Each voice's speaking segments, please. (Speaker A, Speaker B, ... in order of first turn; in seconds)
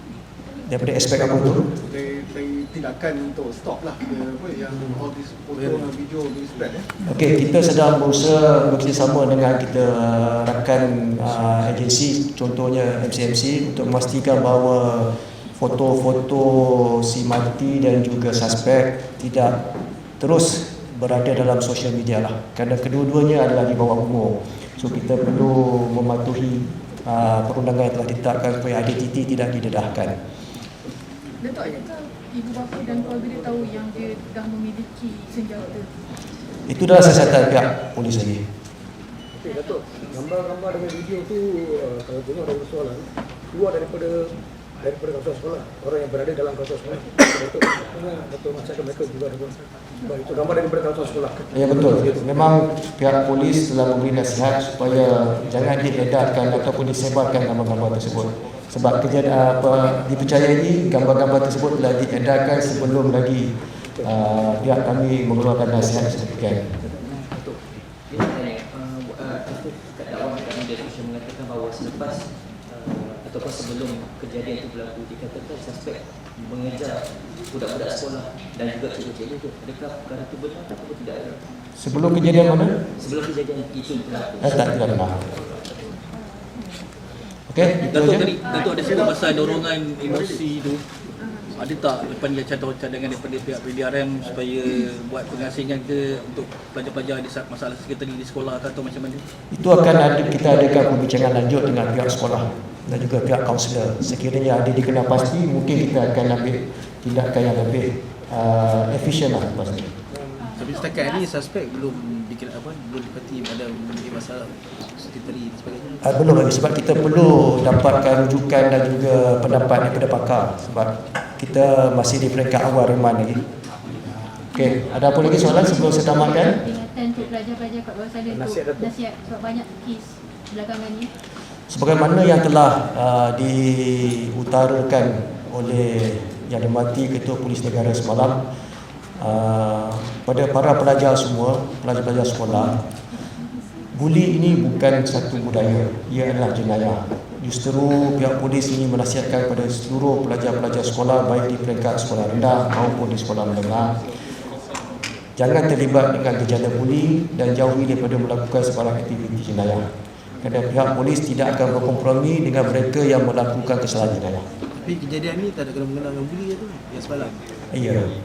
Speaker A: 0.7-1.7, 7.0-19.6, 20.2-30.2, 36.7-38.4, 51.5-66.7, 81.8-82.8, 84.4-85.2, 87.5-88.4, 99.5-110.0, 116.0-123.5, 124.5-126.6, 131.7-138.4, 139.2-142.9, 143.9-154.0, 155.4-159.9, 160.4-164.5, 167.7-168.2
Speaker B: 1.8-6.9, 88.5-90.4
Speaker C: 5.6-5.8, 110.6-116.0, 164.8-167.4
Speaker D: 31.4-36.0
Speaker E: 39.3-52.2, 128.3-128.9
Speaker F: 66.8-81.4, 83.0-86.0
Speaker G: 87.8-90.8, 91.5-99.2
Speaker H: 110.5-111.2, 125.6-131.1